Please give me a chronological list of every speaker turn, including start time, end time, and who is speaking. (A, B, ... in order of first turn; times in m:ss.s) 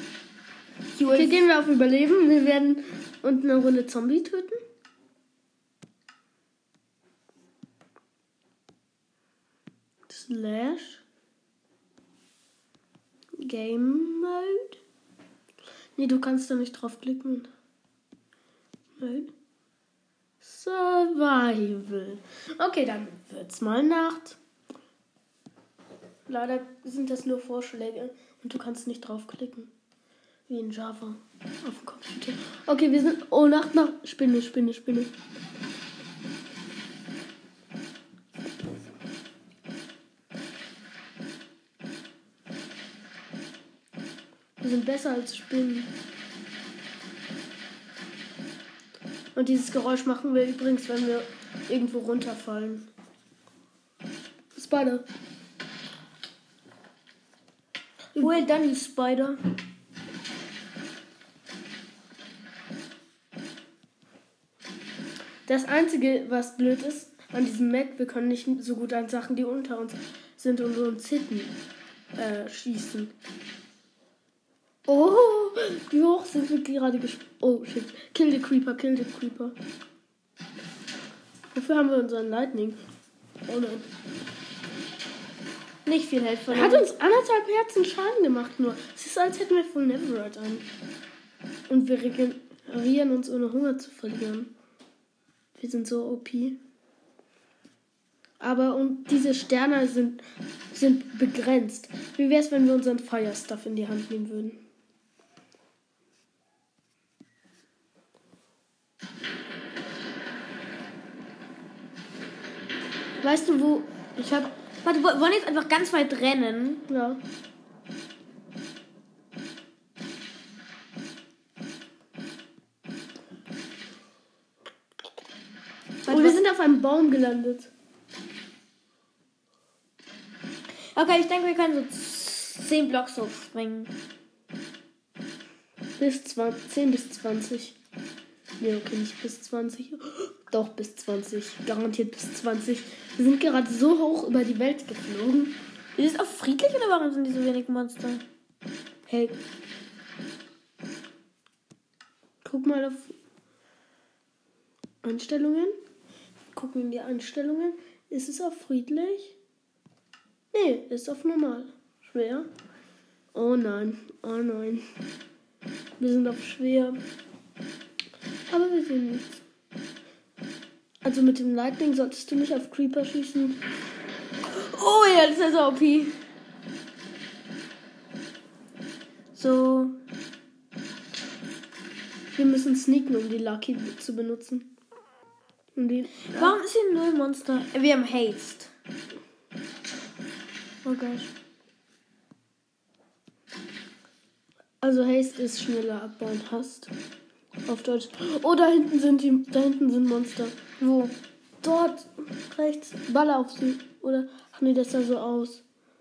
0:00.9-0:01.4 A
0:01.1-0:04.6 B
0:10.1-0:11.0 B
0:13.4-0:14.8 B
0:16.0-0:17.5 B
0:19.0-0:19.3 B
0:20.4-0:24.4 B
0:26.3-0:29.7 B
0:30.5-0:35.1 B
0:44.6-0:45.9 B
0:49.4-0:52.9 B
0:54.6-0:55.1 B
0:58.2-0:58.5 B
0:58.2-0:59.4 A
1:05.5-1:11.6 B
1:12.2-1:13.1 B
1:14.9-1:19.6 B
1:21.5-1:22.8 B
1:23.5-1:23.9 B
1:25.9-1:26.9 A
1:26.5-1:30.7 B
1:31.7-1:34.5 B
1:35.6-1:36.6 B
1:38.4-1:44.6 B
1:53.2-1:53.9 B
1:54.2-1:56.8 A
1:56.9-1:57.2 B
2:06.0-2:06.4 A
2:06.1-2:07.7 B
2:10.9-2:13.9 A
2:16.0-2:17.8 B
2:18.6-2:25.6 B
2:26.0-2:28.2 A
2:29.1-2:29.4 B
2:32.4-2:33.2 B
2:35.0-2:35.8 B
2:36.5-2:39.4 B
2:40.5-2:42.5 B
2:43.3-2:44.9 B
2:46.0-2:47.0 B
2:48.5-2:49.4 B
2:51.0-2:53.6 B
2:54.6-2:56.0 A
2:55.1-2:56.1 B
2:59.4-3:00.0 A
3:02.3-3:04.7 B
3:05.8-3:06.6 B
3:06.3-3:08.7 A
3:10.8-3:11.3 A
3:14.8-3:16.9 B
3:17.7-3:20.8 B
3:20.8-3:21.1 A
3:21.6-3:25.6 B